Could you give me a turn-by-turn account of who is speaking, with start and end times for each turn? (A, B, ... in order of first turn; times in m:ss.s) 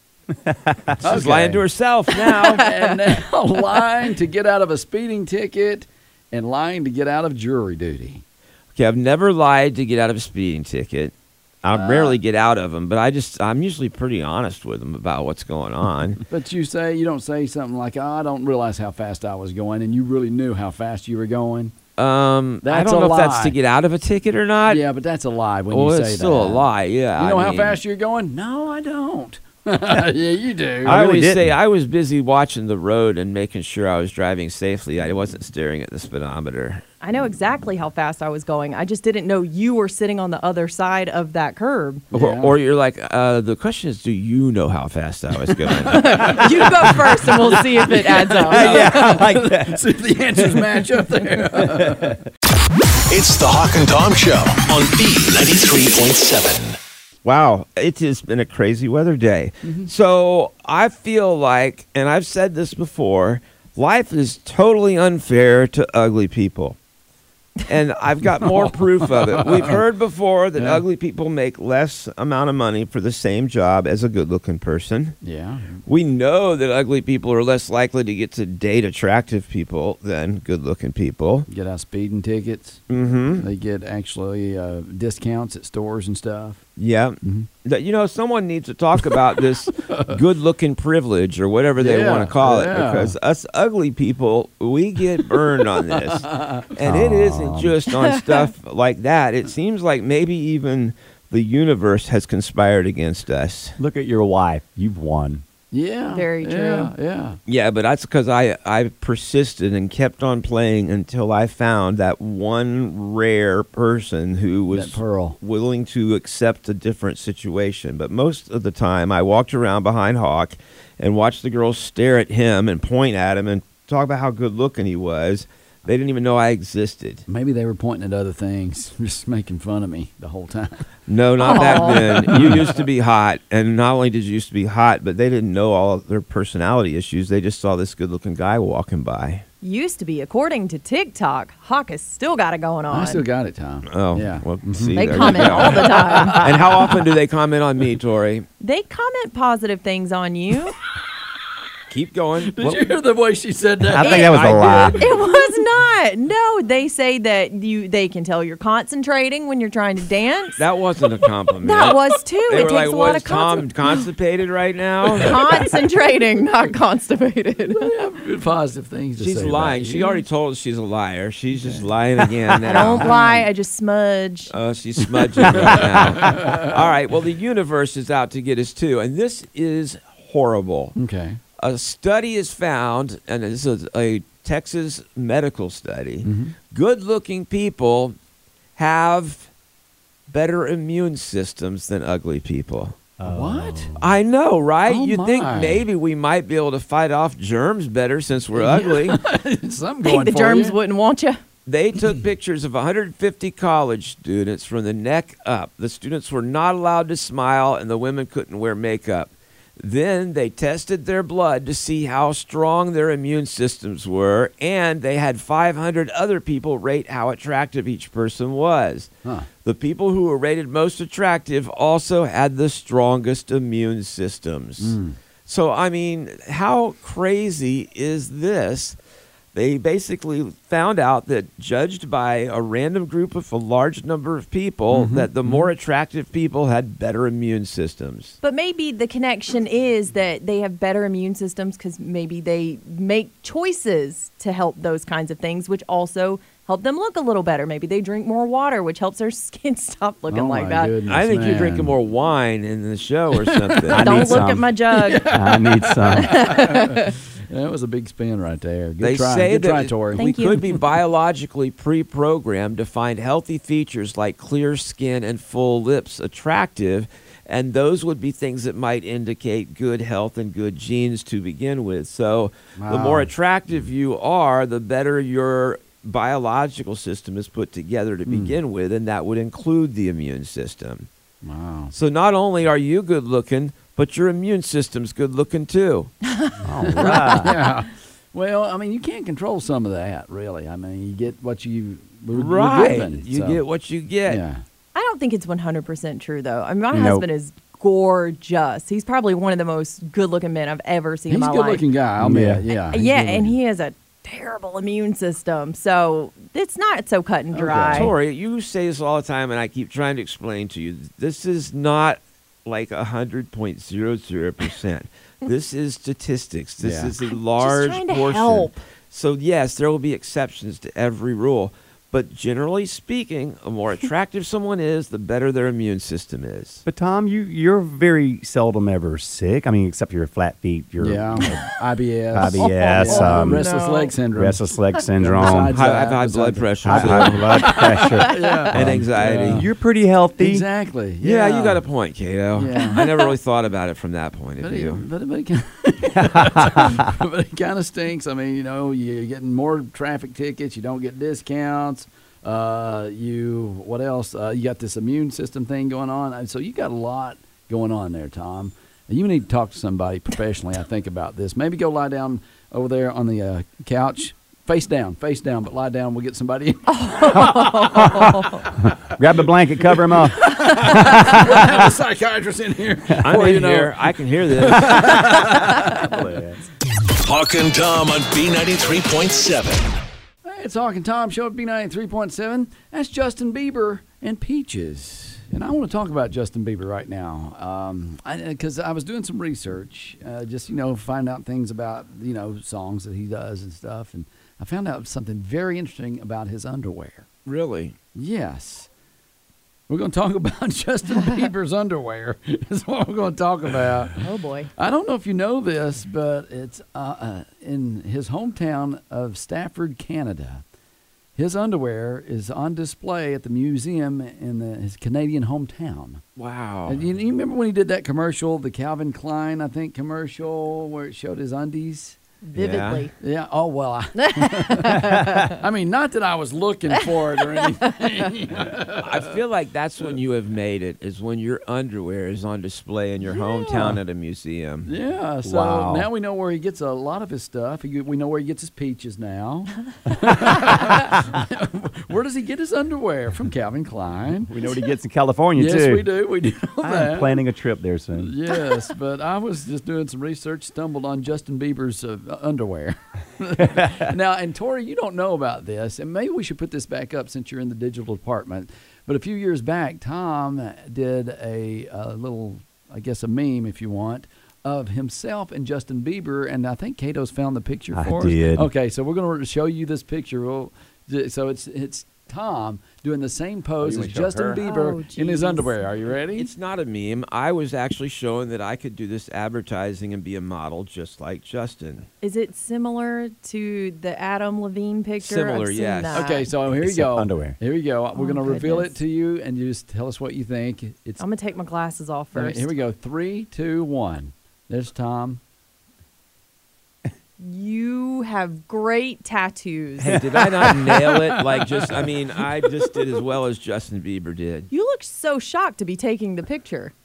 0:00.4-0:01.0 A
0:01.0-0:02.7 B
0:01.0-0:01.6 C
0:02.4-0:08.2 C
0:08.7-0:16.2 B
0:11.7-0:12.2 C
0:16.3-0:21.7 C
0:22.0-0:24.8 B
0:22.6-0:23.5 C
0:24.7-0:26.6 C
0:25.7-0:27.8 B
0:27.2-0:31.1 C
0:30.8-0:31.5 A
0:30.8-0:36.8 B
0:37.0-0:42.0 D
0:42.1-0:42.5 C
0:42.1-0:46.4 B
0:45.7-0:52.2 C
0:45.9-0:49.0 D
0:48.4-0:49.8 A
0:50.4-0:50.8 A
0:51.5-0:52.2 A
0:53.1-0:56.8 E
0:57.2-1:06.8 B
0:59.6-0:59.9 C
1:07.6-1:15.2 B
1:08.4-1:09.8 C
1:10.6-1:10.8 C
1:15.2-1:15.8 C
1:15.9-1:21.5 B
1:21.5-1:22.8 C
1:22.9-1:23.5 B
1:23.4-1:26.6 C
1:26.8-1:43.8 B
1:27.2-1:27.5 C
1:29.8-1:30.2 C
1:31.8-1:33.1 C
1:35.6-1:36.7 C
1:36.8-1:37.8 A
1:38.1-1:38.4 D
1:43.8-1:45.4 A
1:45.7-1:47.4 C
1:46.1-1:46.9 D
1:47.5-2:07.2 B
1:54.7-1:55.4 C
2:07.3-2:10.8 C
2:11.1-2:19.4 B
2:11.4-2:12.1 D
2:11.4-2:12.7 C
2:19.6-2:23.2 D
2:22.9-2:26.5 C
2:23.9-2:28.4 B
2:25.0-2:26.4 D
2:26.1-2:26.6 A
2:28.6-2:30.8 D
2:31.9-2:32.6 B
2:32.4-2:35.4 C
2:33.8-2:35.1 A
2:34.0-2:34.4 D
2:34.3-2:35.0 B
2:35.0-2:40.6 D
2:40.6-2:45.4 B
2:41.6-2:43.7 D
2:45.2-2:47.9 D
2:47.7-2:50.1 C
2:49.2-2:53.1 B
2:51.6-2:51.9 C
2:52.5-2:53.5 C
2:52.7-2:54.5 D
2:54.5-3:01.0 B
2:55.1-2:56.9 C
3:01.0-3:01.4 C
3:01.6-3:08.2 B
3:06.2-3:06.5 C
3:08.8-3:09.5 B
3:10.3-3:13.0 B
3:13.2-3:14.0 A
3:13.2-3:14.0 C
3:14.0-3:19.2 B
3:14.8-3:15.8 C
3:18.5-3:20.8 C
3:20.0-3:21.4 D
3:21.6-3:39.1 B
3:39.6-3:49.0 B
3:44.8-3:45.2 C
3:49.5-3:58.4 B
3:54.9-3:55.7 C
3:58.4-4:10.9 D
4:10.3-4:12.0 C
4:11.1-4:14.2 B
4:13.5-4:20.2 C
4:13.9-4:14.7 A
4:14.0-4:15.3 D
4:15.2-4:16.6 A
4:16.2-4:17.1 D
4:19.0-4:41.1 B
4:20.2-4:20.6 D
4:32.8-4:33.3 C
4:38.3-4:38.6 C
4:41.4-4:41.9 C
4:41.9-4:46.1 B
4:46.6-4:47.6 A
4:46.6-4:53.6 C
4:52.3-4:54.4 B
4:54.3-4:54.6 C
4:54.9-5:01.8 D
4:56.9-4:57.2 A
5:01.3-5:03.5 C
5:02.2-5:02.6 A
5:02.7-5:08.1 D
5:07.5-5:08.1 C
5:07.9-5:26.8 B
5:16.8-5:17.1 C
5:17.3-5:18.8 D
5:26.8-5:31.7 A
5:31.0-5:39.7 C
5:32.3-5:33.7 A
5:32.5-5:34.1 D
5:34.3-5:35.8 A
5:35.7-5:37.7 B
5:36.8-5:40.6 A
5:38.0-5:38.6 D
5:38.7-5:39.6 B
5:40.4-5:41.8 C
5:41.2-5:45.0 B
5:42.5-5:43.0 C
5:42.9-5:43.3 D
5:44.6-6:08.3 C
5:46.2-5:47.1 A
6:06.9-6:08.6 D
6:07.8-6:11.9 A
6:09.8-6:16.3 C
6:13.2-6:15.3 B
6:15.2-6:16.6 A
6:17.2-6:20.0 E
6:20.4-6:37.3 C
6:37.4-6:37.9 B
6:38.1-6:38.9 C
6:39.9-6:44.2 C
6:44.2-6:44.7 D
6:44.8-6:50.6 C
6:51.4-6:56.2 C
6:56.4-6:57.0 B
6:56.9-7:02.2 C
7:02.4-7:03.1 D
7:02.5-7:03.1 B
7:03.2-7:09.1 C
7:04.2-7:05.5 D
7:09.0-7:14.9 B
7:13.4-7:14.0 C
7:14.8-7:24.5 C
7:15.4-7:16.1 A
7:24.5-7:26.1 A
7:25.6-7:27.4 C
7:26.8-7:28.3 A
7:28.2-7:56.5 C
7:33.6-7:34.0 A
7:47.9-7:48.7 A
7:53.8-7:54.6 A
7:54.6-7:55.8 D
7:56.3-8:02.1 B
8:02.2-8:06.5 D
8:05.2-8:06.2 B
8:06.1-8:11.2 C
8:06.7-8:07.6 A
8:08.1-8:09.0 D
8:11.2-8:12.7 D
8:12.3-8:15.4 C
8:17.4-8:20.2 D
8:20.0-8:24.7 B
8:20.1-8:20.9 A
8:21.5-8:21.9 C
8:24.7-8:26.9 D